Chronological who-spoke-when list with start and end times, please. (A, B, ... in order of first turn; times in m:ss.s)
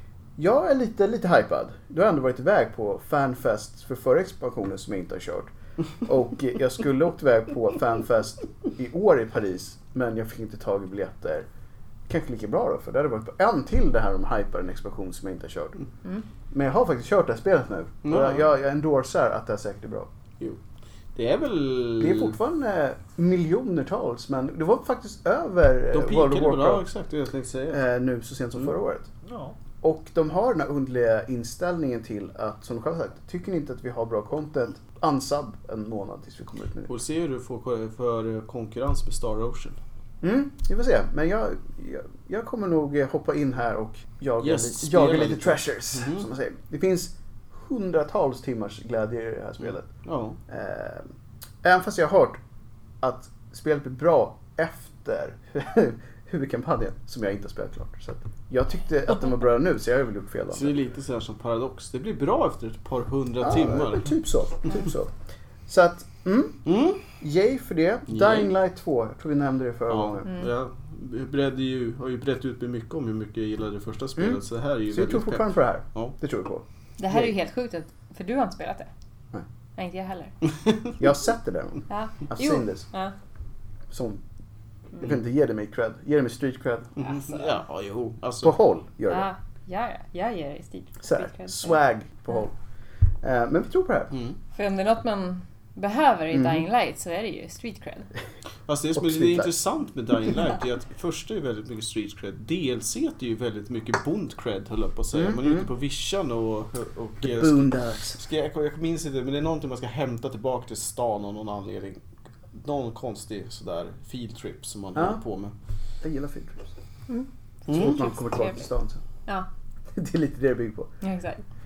0:00.4-0:11.5 A
0:12.1-0:15.8 A
0:16.5-0:20.1 A
0:18.0-0:18.5 B
0:21.1-0:22.4 B
0:22.0-0:26.8 A
0:25.9-0:27.8 B
0:27.7-0:29.1 A
0:29.2-0:29.6 B
0:29.8-0:36.9 A
0:36.9-0:39.8 B
0:40.2-0:49.9 A
0:44.4-0:46.3 B
0:50.0-0:50.4 B
0:50.5-0:51.1 A
0:51.6-0:52.4 A
0:53.0-1:00.7 A
1:00.5-1:04.1 B
1:03.4-1:05.1 A
1:05.7-1:06.6 A
1:06.6-1:07.0 B
1:07.2-1:10.3 A
1:08.1-1:08.5 B
1:09.9-1:16.1 B
1:14.2-1:17.3 A
1:17.0-1:18.9 C
1:19.8-1:20.3 C
1:21.0-1:22.8 A
1:21.9-1:23.1 C
1:23.9-1:24.2 A
1:25.0-1:27.0 A
1:27.0-1:28.6 B
1:27.0-1:27.6 C
1:28.4-1:29.3 A
1:29.1-1:31.8 C
1:31.0-1:32.5 A
1:33.2-1:34.2 A
1:34.5-1:38.1 C
1:36.3-1:36.6 A
1:38.7-1:55.5 B
1:39.0-1:39.5 A
1:45.1-1:45.7 A
1:47.2-1:48.2 A
1:56.0-1:56.7 A
1:57.1-1:58.6 C
1:57.7-1:58.1 B
1:57.7-1:59.0 A
1:59.9-2:00.9 A
2:01.0-2:01.4 C